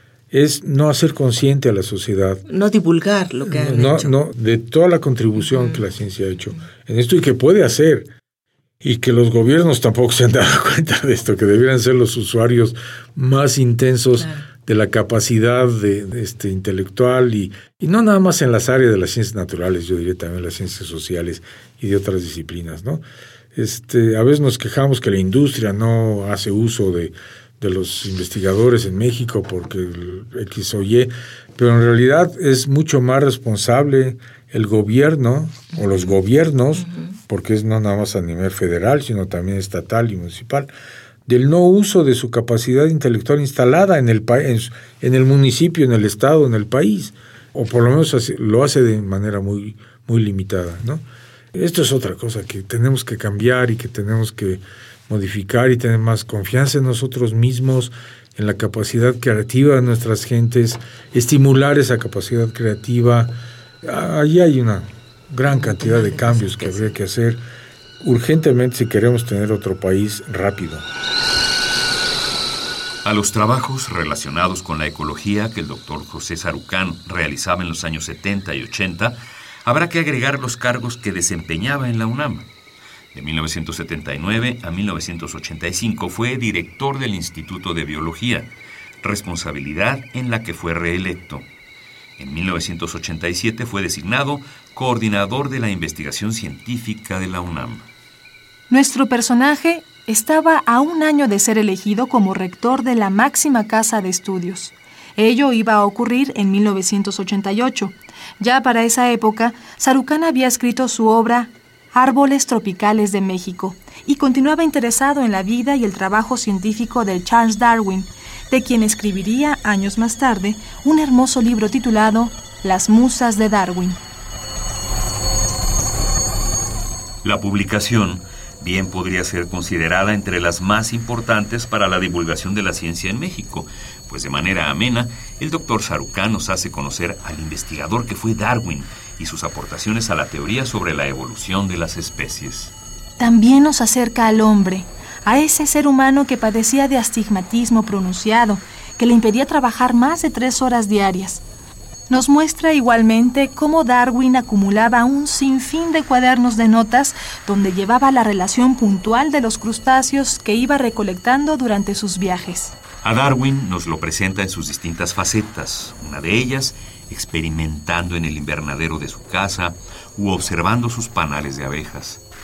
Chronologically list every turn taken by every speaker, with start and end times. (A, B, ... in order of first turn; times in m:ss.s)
0:00.3-0:02.4 A
0:02.5-0:04.1 B
0:03.4-0:08.1 A
0:08.8-0:23.0 A
0:14.2-0:14.4 B
0:23.5-0:40.7 A
0:41.3-0:51.0 A
0:51.5-1:07.4 A
1:05.5-1:07.0 B
1:08.0-1:10.8 A
1:13.0-1:22.5 C
1:23.1-1:28.5 C
1:29.0-1:31.5 C
1:32.2-1:37.9 C
1:38.7-2:04.0 D
2:07.2-2:22.7 C
2:23.2-2:31.4 D
2:32.1-2:42.8 D
2:43.0-2:52.2 C